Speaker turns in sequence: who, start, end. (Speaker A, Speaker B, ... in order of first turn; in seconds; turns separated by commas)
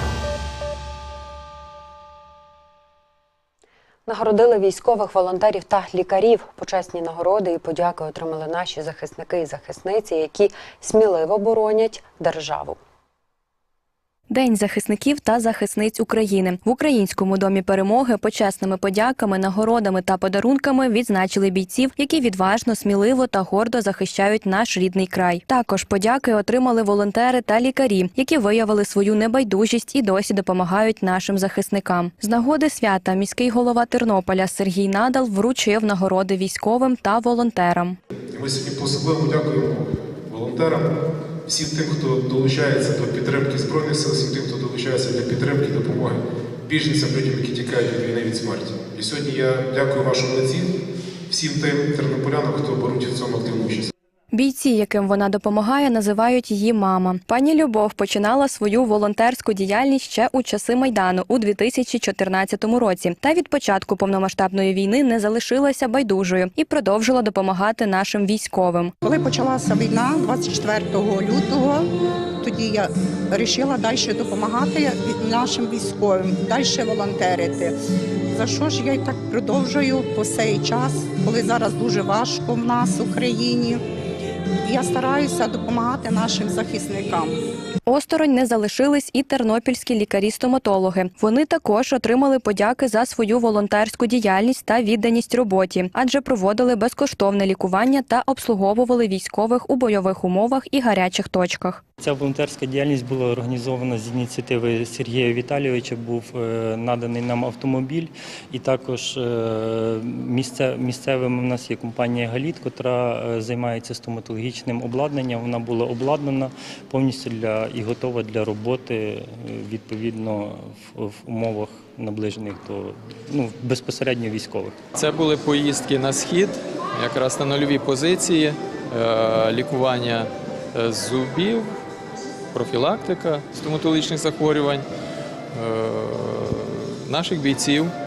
Speaker A: 4.1-12.8, Speaker B: 14.3-38.0, Speaker C: 38.3-40.9, Speaker C: 41.5-50.8, Speaker C: 51.3-53.9, Speaker B: 54.3-68.9, Speaker D: 69.0-71.9, Speaker D: 72.4-77.8, Speaker D: 78.3-83.8, Speaker D: 84.6-87.4, Speaker B: 87.9-101.8, Speaker E: 102.0-124.8, Speaker F: 125.0-131.8, Speaker F: 132.5-134.8, Speaker F: 135.5-137.9